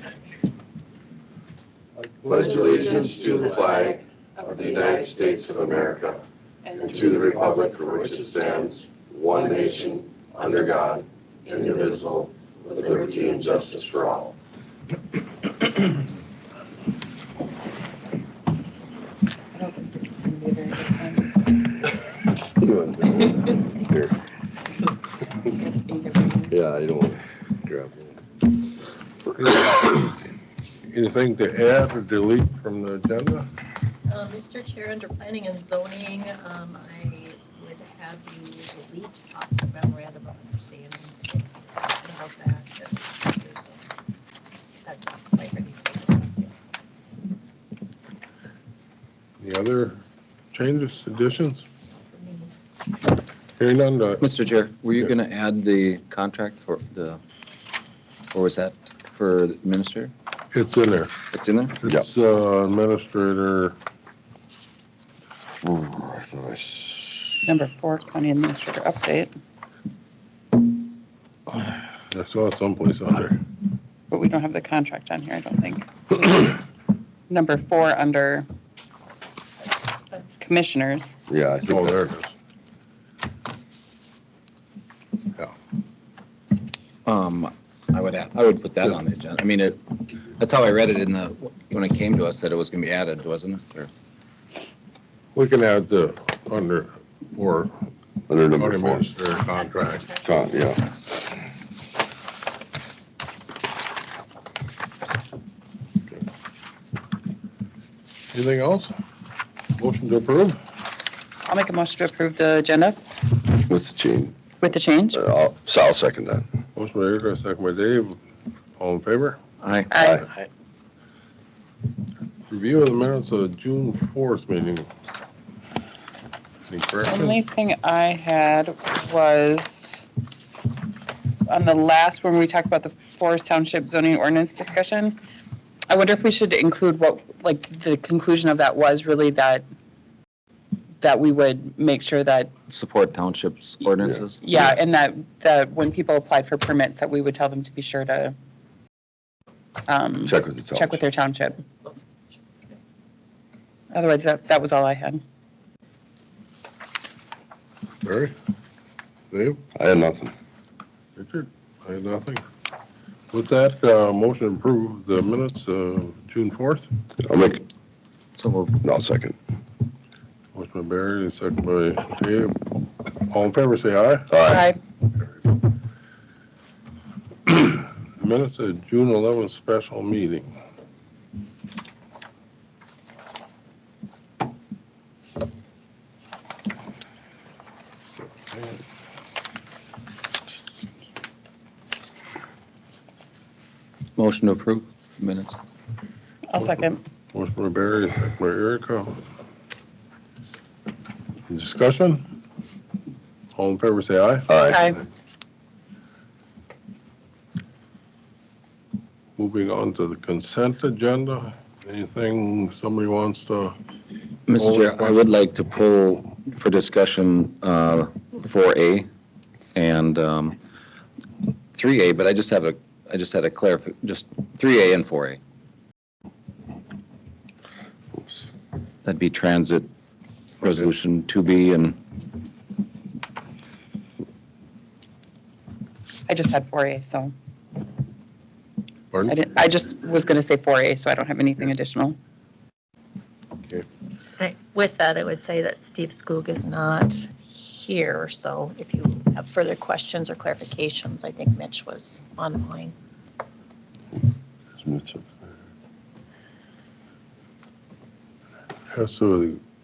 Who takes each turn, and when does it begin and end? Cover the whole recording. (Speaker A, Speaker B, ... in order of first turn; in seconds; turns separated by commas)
Speaker A: 2.0-2.4, Speaker B: 2.3-6.2, Speaker B: 6.8-14.3, Speaker C: 19.5-21.4, Speaker B: 22.6-24.2, Speaker C: 25.4-26.5, Speaker B: 26.5-28.2, Speaker A: 29.4-30.2, Speaker A: 30.9-33.5, Speaker D: 34.1-43.9, Speaker D: 44.8-46.8, Speaker A: 49.4-50.0, Speaker A: 50.5-51.7, Speaker D: 52.1-52.5, Speaker A: 53.6-54.3, Speaker E: 54.2-57.2, Speaker E: 58.3-60.1, Speaker A: 60.5-61.2, Speaker E: 61.3-61.8, Speaker A: 61.8-63.8, Speaker B: 65.6-67.4, Speaker C: 67.5-69.3, Speaker A: 72.1-73.4, Speaker C: 74.1-76.6, Speaker C: 77.3-78.5, Speaker C: 80.4-81.1, Speaker B: 81.3-82.0, Speaker A: 81.7-82.3, Speaker E: 87.0-93.9, Speaker A: 95.3-97.8, Speaker B: 98.3-99.1, Speaker A: 98.6-100.2, Speaker B: 100.2-101.0, Speaker A: 108.3-109.0, Speaker A: 109.8-110.6, Speaker C: 111.5-113.0, Speaker B: 113.5-114.3, Speaker C: 114.6-115.2, Speaker B: 115.1-116.5, Speaker A: 116.8-118.2, Speaker A: 118.8-119.4, Speaker E: 119.6-119.9, Speaker C: 119.9-120.3, Speaker B: 120.0-120.2, Speaker A: 122.5-124.9, Speaker A: 126.7-127.4, Speaker C: 127.1-130.1, Speaker C: 131.5-135.2, Speaker C: 135.9-139.6, Speaker C: 141.0-142.5, Speaker E: 142.7-144.4, Speaker C: 144.4-148.3, Speaker C: 149.9-151.6, Speaker B: 150.2-151.0, Speaker C: 153.9-155.2, Speaker A: 158.0-158.3, Speaker A: 159.3-159.6, Speaker B: 159.8-160.3, Speaker A: 161.2-162.4, Speaker A: 163.3-166.9, Speaker B: 167.2-167.7, Speaker E: 168.4-168.8, Speaker B: 168.8-169.4, Speaker A: 170.5-174.3, Speaker B: 174.3-174.7, Speaker C: 174.5-174.8, Speaker A: 177.5-180.6, Speaker E: 194.2-195.6, Speaker C: 196.5-197.0, Speaker A: 196.6-199.2, Speaker A: 201.5-202.3, Speaker A: 203.6-204.5, Speaker B: 204.5-204.9, Speaker C: 204.7-205.0, Speaker A: 209.4-213.8, Speaker E: 214.5-219.1, Speaker A: 214.6-215.2, Speaker E: 219.7-220.6, Speaker E: 221.7-225.4, Speaker B: 228.2-228.5, Speaker E: 229.1-229.9, Speaker E: 230.6-232.0, Speaker C: 236.3-237.3, Speaker C: 239.3-242.2, Speaker D: 244.4-253.0, Speaker B: 254.8-255.3, Speaker A: 258.9-259.6